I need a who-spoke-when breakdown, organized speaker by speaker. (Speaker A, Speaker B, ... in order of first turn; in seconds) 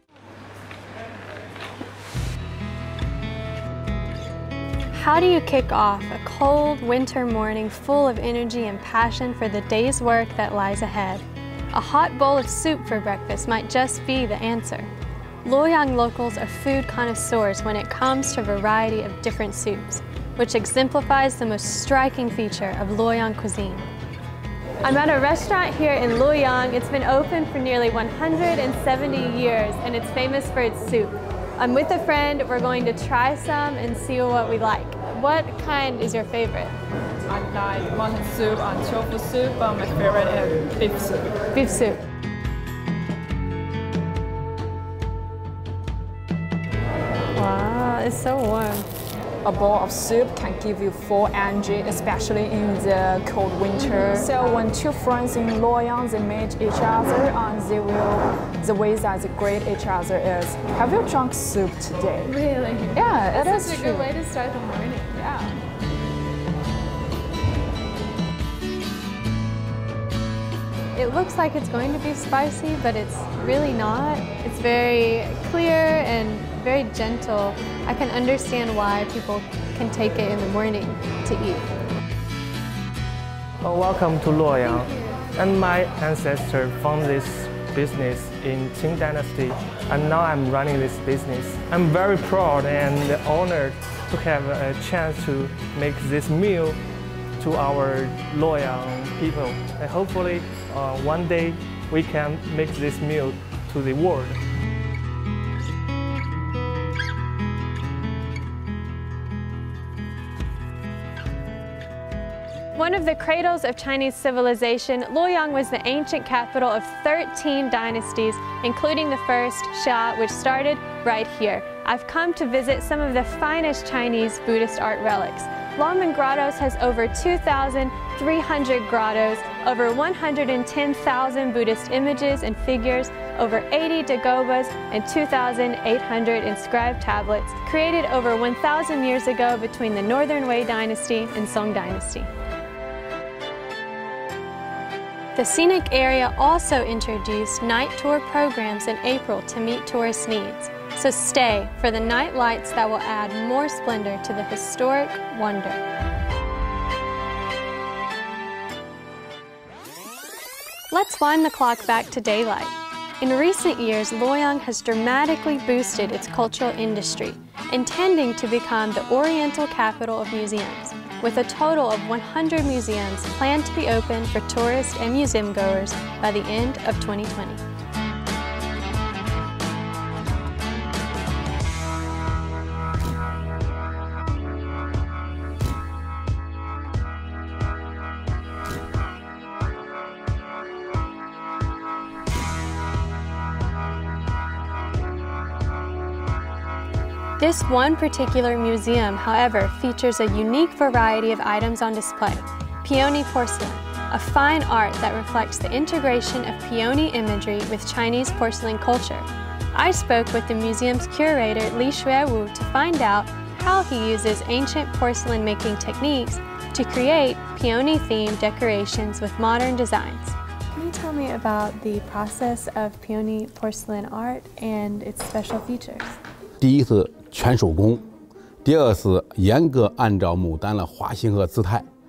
Speaker A: 4.9-14.9, 15.4-23.8, 24.8-36.8, 41.5-42.0, 47.3-48.9, 53.8-54.3, 62.3-65.1, 70.9-81.7, 112.7-142.3, 145.3-155.8, 160.9-177.6, 197.4-226.1
Speaker B: 37.3-41.3, 49.4-62.3, 62.9-64.1
Speaker C: 83.6-96.8, 97.4-104.4
Speaker D: 226.6-228.0, 228.6-231.9